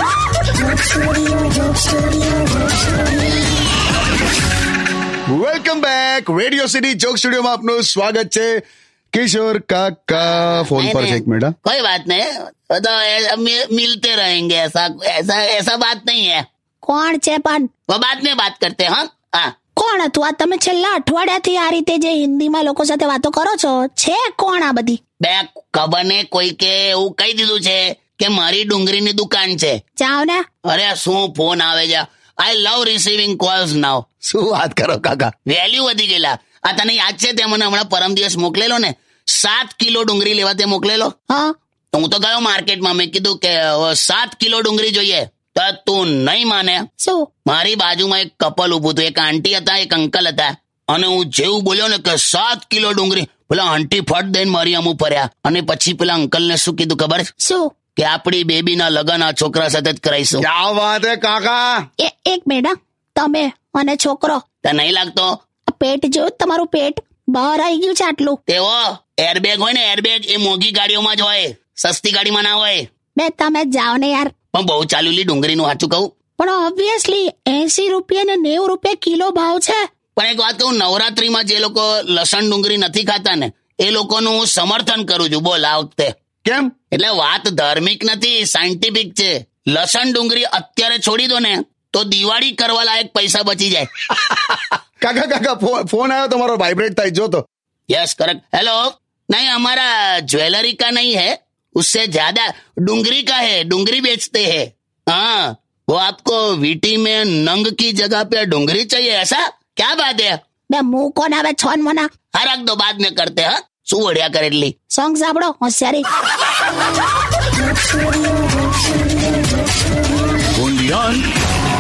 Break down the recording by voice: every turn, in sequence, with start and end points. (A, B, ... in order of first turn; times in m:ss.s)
0:00.6-0:03.4 A
0:05.3-0:08.6 B
0:09.1-0:11.6 B
0:10.7-0:16.4 C
0:16.8-0:17.7 A
0:17.9-0:19.5 C
0:19.8-0:25.0 A
0:25.2-0:29.8 C
0:30.0-0:30.4 A
0:30.6-0:41.1 C
0:41.9-0:46.8 C
0:47.0-0:47.3 A
0:47.5-0:57.3 C
0:57.4-0:57.7 A
0:58.0-1:00.4 C
1:00.4-1:01.8 B
1:02.0-1:04.4 A
1:04.6-1:05.4 C
1:05.7-1:08.4 A
1:08.5-1:12.9 C
1:13.2-1:14.3 A
1:14.5-1:16.1 C
1:16.4-1:19.8 A
1:20.2-1:26.1 C
1:26.4-1:26.7 B
1:26.9-1:33.9 C
1:34.3-1:37.4 B
1:37.9-1:50.4 C
1:50.7-1:52.1 A
1:52.4-1:54.8 C
1:54.9-1:56.0 A
1:57.6-1:59.9 A
2:00.6-2:01.2 B